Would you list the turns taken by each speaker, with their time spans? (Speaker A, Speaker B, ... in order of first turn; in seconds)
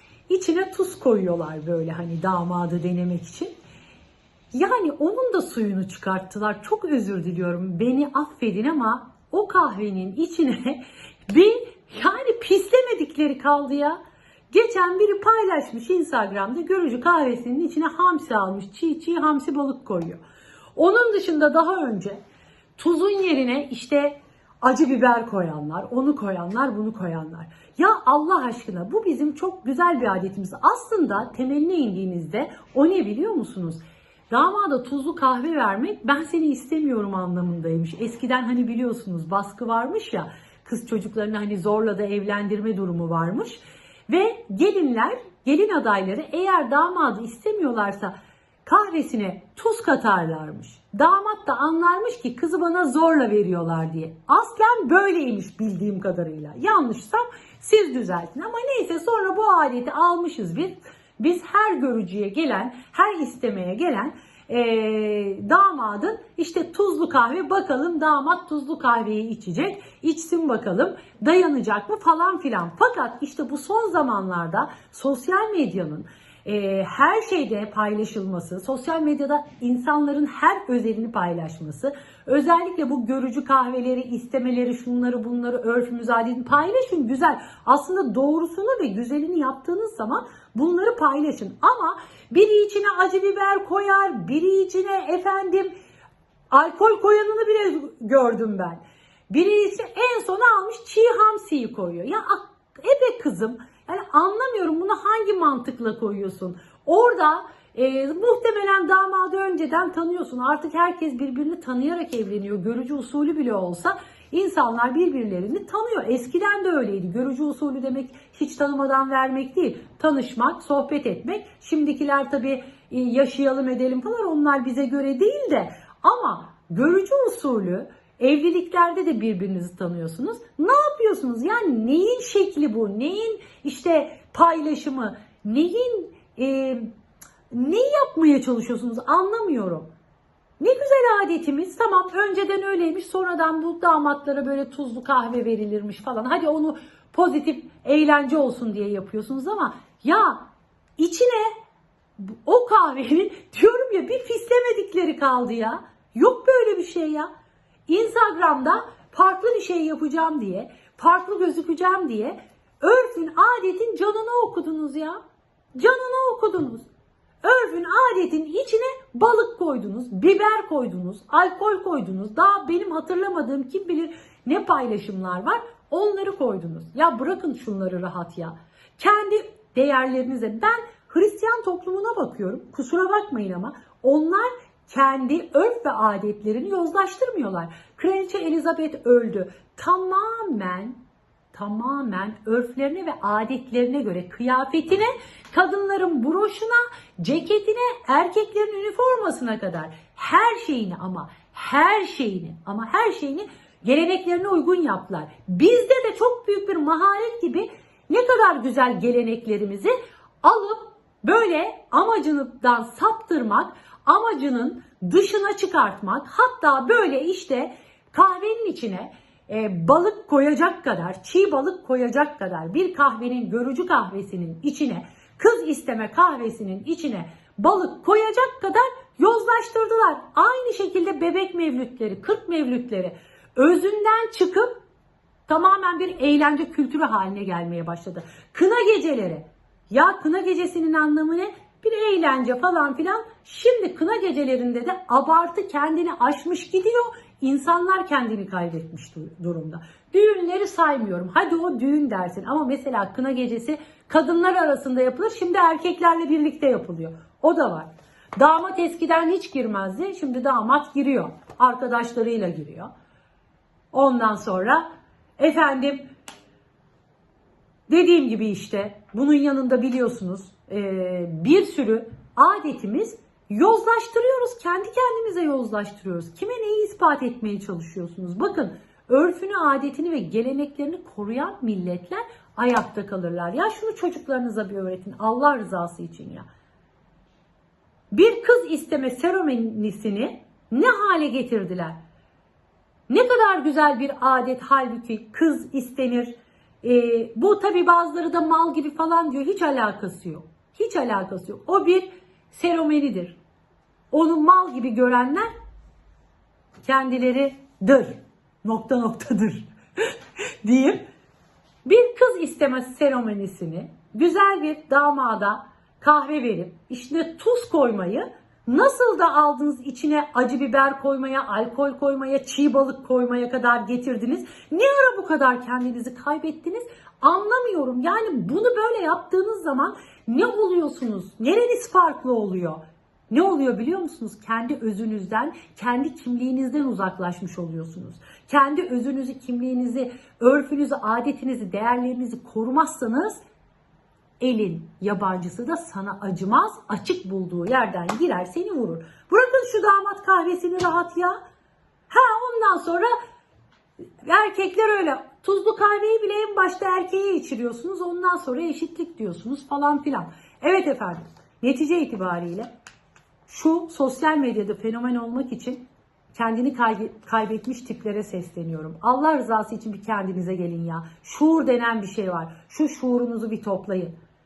Speaker A: 0.3-3.5, 4.5-14.0, 14.5-20.2, 20.8-22.2, 22.8-48.1, 48.6-95.7, 96.5-136.9, 137.5-139.9, 140.6-150.4, 151.0-151.5, 152.2-157.3, 157.9-165.2, 165.8-166.9, 167.4-191.0, 191.5-234.7, 235.5-262.9, 263.9-264.8, 265.4-266.1, 267.9-286.4, 288.1-292.0, 293.1-303.4, 304.1-305.5, 306.8-310.1, 310.6-311.0, 311.9-343.4, 344.4-351.4, 352.1-353.1, 354.2-362.7, 363.5-365.8, 366.3-374.1